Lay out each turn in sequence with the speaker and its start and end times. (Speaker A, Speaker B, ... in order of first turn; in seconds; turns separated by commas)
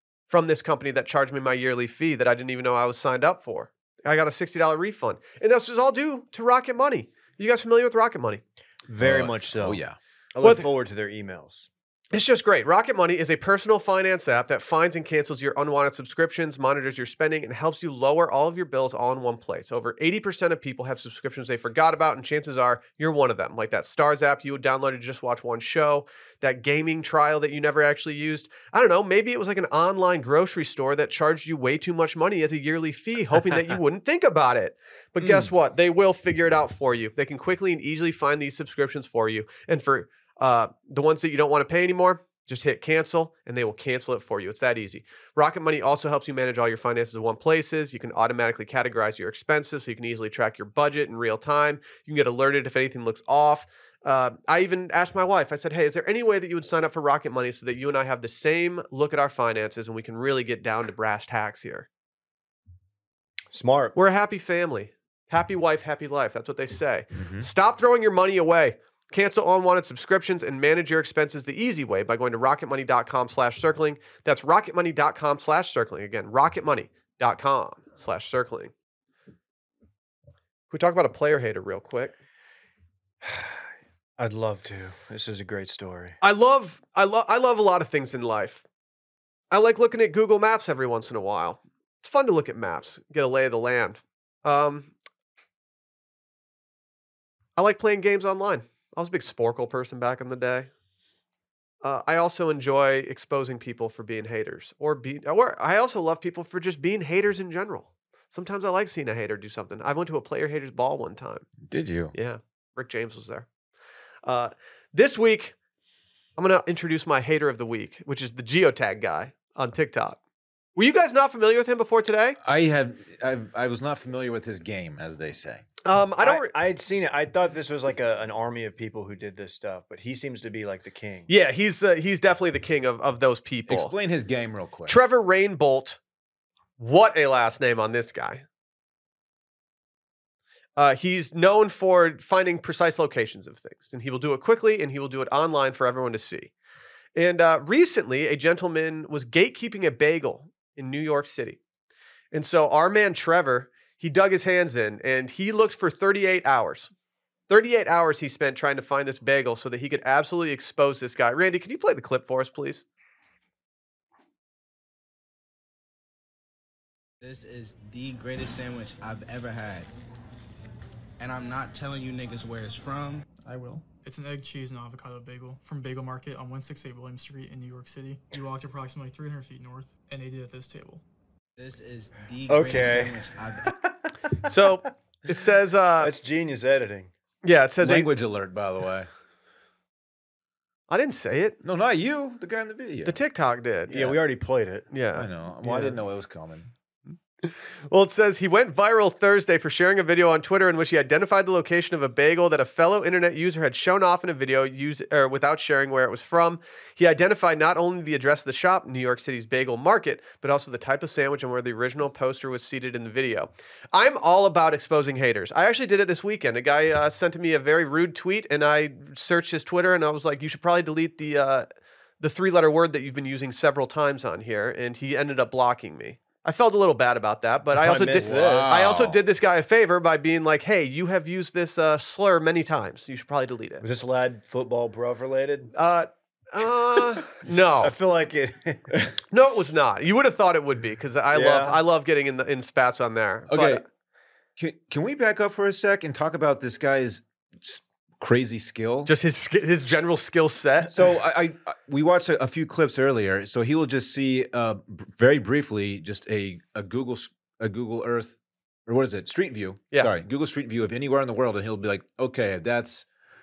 Speaker A: 0.3-8.4, Speaker B: 8.9-9.8, Speaker C: 9.0-10.0, Speaker B: 10.3-11.7, Speaker A: 12.1-61.9, Speaker B: 63.5-63.9, Speaker A: 63.9-78.7, Speaker C: 67.1-67.5, Speaker A: 80.7-82.1, Speaker B: 83.2-83.6, Speaker B: 84.2-86.2, Speaker A: 86.2-88.6, Speaker A: 89.5-94.9, Speaker A: 97.6-100.7, Speaker A: 101.8-111.5, Speaker C: 111.6-112.1, Speaker A: 112.1-113.5, Speaker A: 114.2-115.5, Speaker A: 116.4-120.2, Speaker A: 120.8-122.4, Speaker C: 122.4-125.6, Speaker A: 125.8-126.5, Speaker B: 126.2-131.3, Speaker A: 131.3-133.9, Speaker C: 133.7-135.0, Speaker A: 134.9-136.0, Speaker A: 136.8-138.4, Speaker A: 140.8-146.5, Speaker A: 147.1-151.6, Speaker A: 152.3-156.9, Speaker A: 157.5-162.8, Speaker D: 167.2-169.9, Speaker D: 171.2-173.2, Speaker E: 173.4-181.0, Speaker D: 181.6-183.7, Speaker B: 182.5-183.2, Speaker B: 183.8-184.6, Speaker A: 184.4-186.1, Speaker B: 186.0-187.1, Speaker A: 187.4-188.1, Speaker C: 187.8-189.1, Speaker A: 190.9-191.6, Speaker C: 191.6-193.2, Speaker A: 193.0-194.2, Speaker B: 193.9-194.9, Speaker A: 194.9-195.3, Speaker C: 195.1-196.7, Speaker B: 195.6-196.0, Speaker A: 197.4-221.7, Speaker A: 222.2-233.8, Speaker B: 227.8-228.8, Speaker C: 228.1-229.2, Speaker B: 233.8-235.7, Speaker A: 235.7-237.9, Speaker B: 237.8-239.1, Speaker A: 239.3-243.8, Speaker B: 241.3-241.8, Speaker C: 243.5-243.8, Speaker C: 244.6-249.1, Speaker A: 249.1-251.1, Speaker C: 250.9-263.1